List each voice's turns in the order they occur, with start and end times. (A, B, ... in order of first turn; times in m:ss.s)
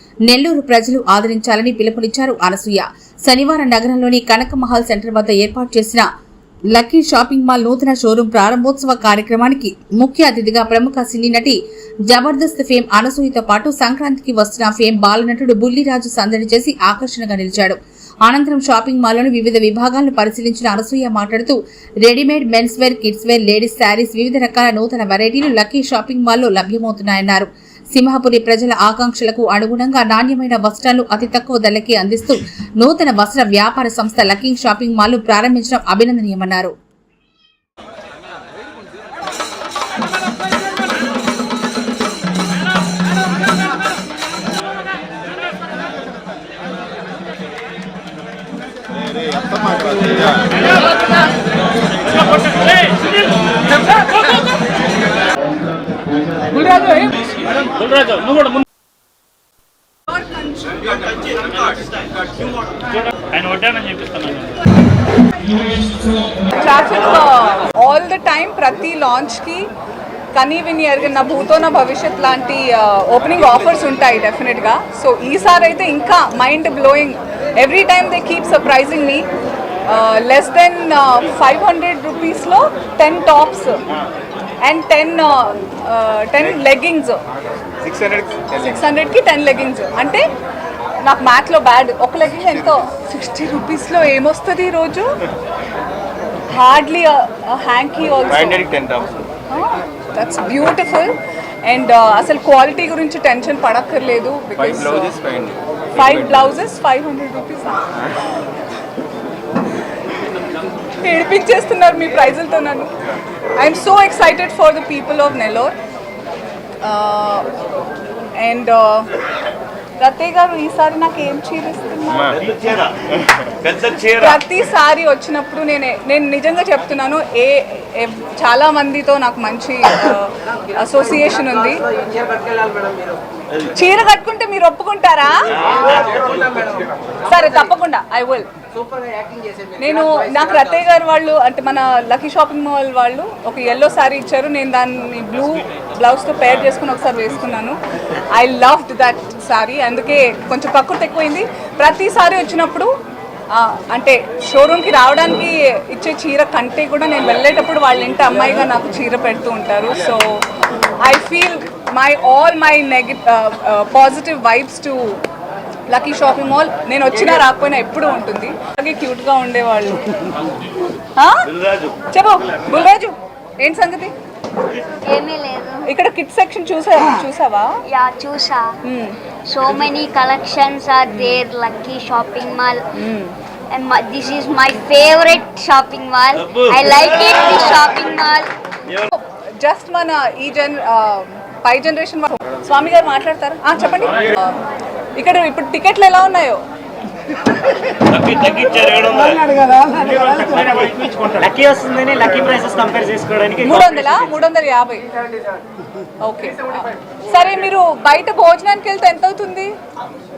0:00.3-0:06.1 A
0:06.7-0:11.6 A
0:12.1-0:36.7 A
0:56.5-0:57.2 B
1:00.1-1:00.8 B
1:06.5-1:09.7 B
1:10.3-1:19.3 B
1:19.9-1:23.8 B
1:24.6-1:27.2 B
1:27.8-1:28.8 C
1:28.6-1:30.3 B
1:31.0-1:35.2 B
1:36.5-1:38.7 B
1:38.4-1:39.2 C
1:39.5-1:45.2 B
1:44.8-1:45.6 C
1:46.0-1:47.9 B
1:51.0-1:52.9 B
1:53.6-1:55.8 B
1:56.8-1:57.5 B
1:58.4-1:59.1 B
2:00.0-2:02.4 B
2:04.0-2:13.0 B
2:13.7-2:16.4 B
2:17.2-2:18.5 B
2:19.7-2:27.8 B
2:28.3-2:32.9 B
2:33.5-2:40.5 B
2:41.0-2:45.2 B
2:45.9-2:50.1 B
2:51.2-2:51.6 B
2:52.1-2:54.2 B
2:55.1-2:55.9 D
2:55.9-2:57.8 B
2:57.9-2:58.8 D
2:58.9-2:59.2 B
2:59.5-3:02.8 D
3:03.0-3:03.4 B
3:03.7-3:08.5 D
3:09.1-3:16.6 B
3:18.1-3:19.2 C
3:18.5-3:19.4 E
3:20.3-3:23.9 E
3:23.6-3:25.1 B
3:26.2-3:29.8 B